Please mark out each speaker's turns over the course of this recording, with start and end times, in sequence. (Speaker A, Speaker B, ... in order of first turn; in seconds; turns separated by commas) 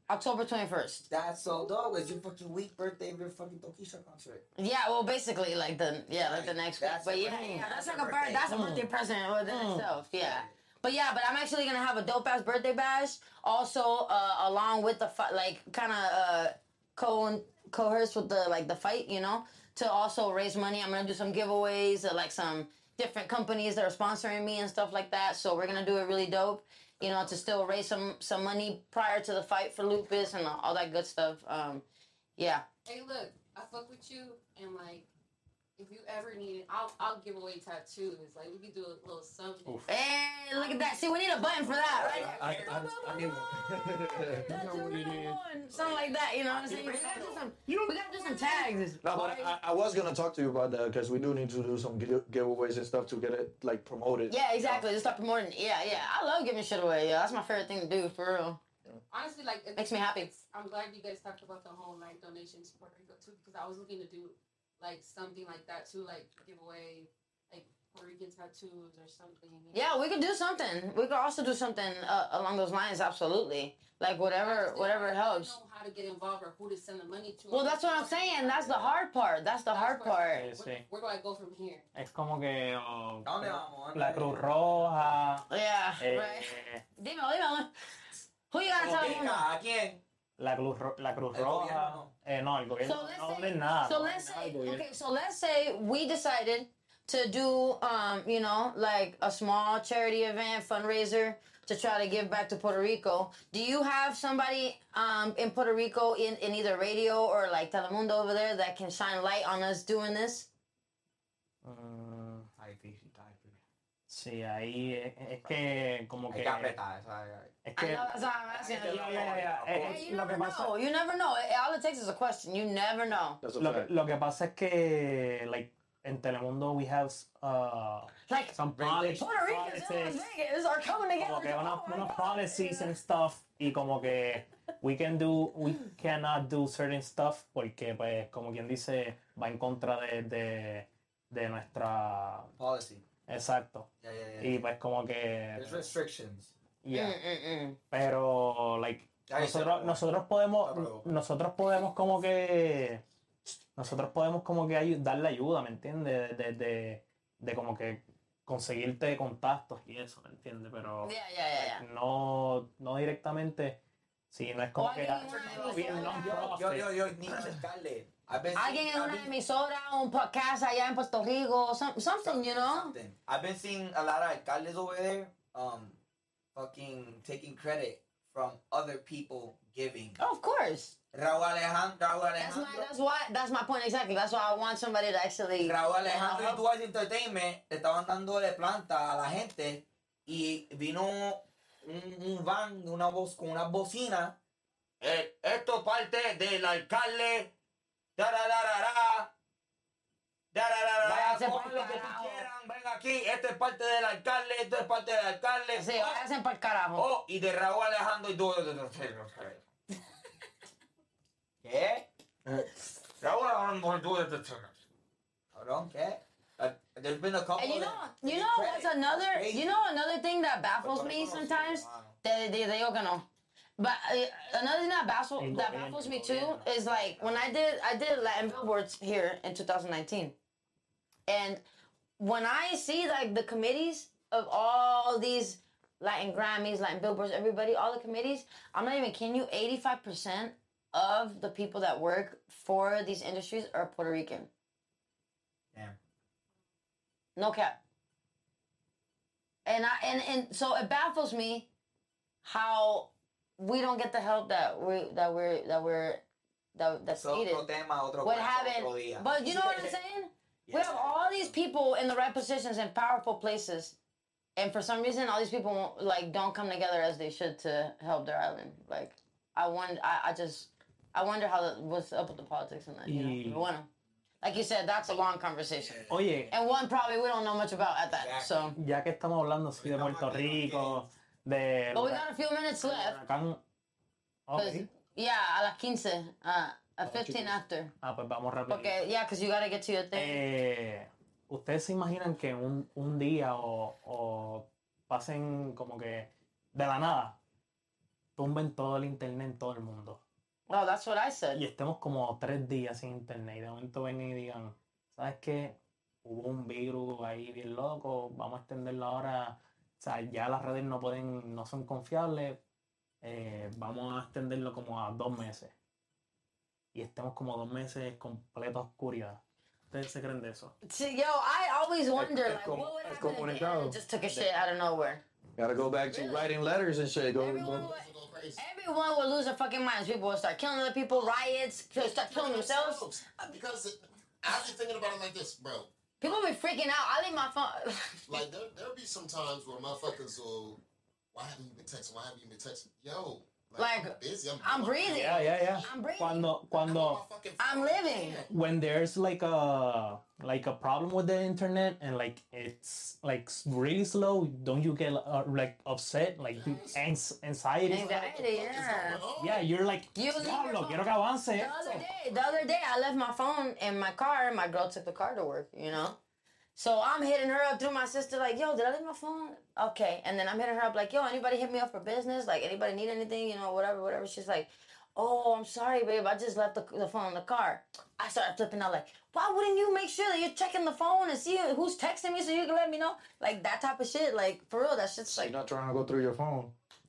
Speaker A: 0.1-1.1, Speaker B: 1.1-4.4, Speaker A: 4.6-31.8, Speaker B: 6.1-8.5, Speaker C: 7.3-7.6, Speaker C: 8.5-8.9, Speaker C: 9.5-9.8, Speaker B: 10.2-10.5, Speaker A: 32.4-32.6, Speaker D: 32.9-35.1, Speaker D: 35.8-39.9, Speaker A: 39.9-43.4, Speaker D: 40.5-42.2, Speaker B: 41.9-42.9, Speaker E: 41.9-45.3, Speaker A: 44.2-49.5, Speaker D: 44.2-44.7, Speaker B: 46.5-47.5, Speaker D: 48.4-48.8, Speaker E: 49.0-54.9, Speaker A: 54.3-58.6, Speaker D: 59.1-70.4, Speaker A: 59.8-60.3, Speaker A: 69.7-75.6, Speaker D: 74.4-79.0, Speaker A: 77.5-80.5, Speaker D: 79.7-81.9, Speaker C: 80.3-80.8, Speaker C: 82.0-85.5, Speaker B: 83.2-85.2, Speaker A: 85.5-87.7, Speaker C: 86.0-86.8, Speaker A: 88.5-89.5, Speaker B: 88.7-90.0, Speaker C: 90.4-94.8, Speaker B: 91.3-92.1, Speaker A: 92.8-110.5, Speaker C: 111.6-112.5, Speaker B: 112.6-113.6, Speaker C: 114.1-116.8, Speaker B: 116.3-117.5, Speaker C: 117.7-118.1, Speaker A: 117.8-123.4, Speaker B: 118.5-120.0, Speaker C: 118.8-120.7, Speaker E: 123.4-123.9, Speaker C: 123.6-130.2, Speaker A: 128.3-128.6, Speaker B: 128.7-129.4, Speaker A: 129.2-132.9, Speaker C: 131.2-142.5, Speaker B: 142.6-143.1, Speaker C: 143.3-145.9, Speaker B: 144.0-144.7, Speaker B: 145.6-146.5, Speaker C: 146.8-147.2, Speaker A: 146.9-147.8, Speaker C: 147.9-153.0, Speaker B: 149.3-150.1, Speaker B: 150.6-151.1, Speaker C: 153.8-163.8, Speaker A: 161.0-161.8, Speaker C: 164.3-166.9, Speaker A: 164.8-166.5, Speaker B: 165.2-169.3, Speaker A: 168.6-172.9, Speaker B: 172.2-176.0, Speaker B: 176.5-180.2, Speaker A: 180.2-180.9, Speaker B: 181.1-182.9, Speaker A: 182.4-186.6, Speaker B: 185.6-194.4, Speaker B: 195.0-197.5, Speaker B: 198.2-199.3, Speaker B: 200.5-206.2, Speaker A: 201.0-202.5, Speaker A: 205.8-207.1, Speaker B: 207.0-209.6, Speaker B: 211.6-212.1, Speaker B: 213.2-214.8, Speaker B: 215.5-219.8, Speaker A: 217.6-223.2, Speaker B: 220.8-222.2, Speaker A: 223.8-230.3, Speaker C: 225.4-226.7, Speaker B: 227.0-227.3, Speaker A: 231.3-231.6, Speaker A: 232.2-244.5, Speaker A: 247.4-247.7, Speaker A: 249.7-251.7, Speaker A: 252.4-256.2, Speaker A: 256.8-257.6, Speaker B: 257.2-260.0, Speaker A: 258.2-263.9, Speaker B: 260.7-261.6, Speaker A: 264.6-273.9, Speaker C: 273.1-273.6, Speaker A: 274.4-276.0, Speaker B: 275.8-276.2, Speaker C: 276.1-276.5, Speaker A: 276.5-278.8, Speaker B: 278.1-278.8, Speaker C: 278.8-282.3, Speaker B: 279.8-281.0, Speaker A: 281.9-283.2, Speaker C: 282.8-283.6, Speaker C: 284.5-284.9, Speaker A: 284.6-287.9, Speaker C: 288.0-289.0, Speaker A: 288.7-290.4, Speaker C: 290.1-297.4, Speaker C: 298.4-300.2, Speaker A: 300.7-301.6, Speaker C: 301.5-312.6, Speaker C: 313.2-315.7, Speaker C: 316.9-319.4, Speaker C: 319.9-320.8, Speaker A: 320.9-325.2, Speaker E: 322.1-324.0, Speaker E: 325.6-327.9, Speaker A: 326.1-326.5, Speaker A: 327.4-333.5, Speaker F: 327.6-328.6, Speaker F: 331.1-331.4, Speaker F: 331.9-335.9, Speaker A: 336.2-338.5, Speaker F: 338.3-340.8, Speaker F: 341.3-346.0, Speaker A: 343.8-346.5, Speaker C: 345.0-347.2, Speaker F: 346.7-348.5, Speaker A: 347.6-348.4, Speaker C: 348.5-358.4, Speaker F: 356.5-357.0, Speaker A: 357.9-359.2, Speaker F: 358.0-359.7, Speaker C: 359.4-362.1, Speaker A: 360.1-366.2, Speaker A: 366.8-385.5, Speaker E: 385.4-386.7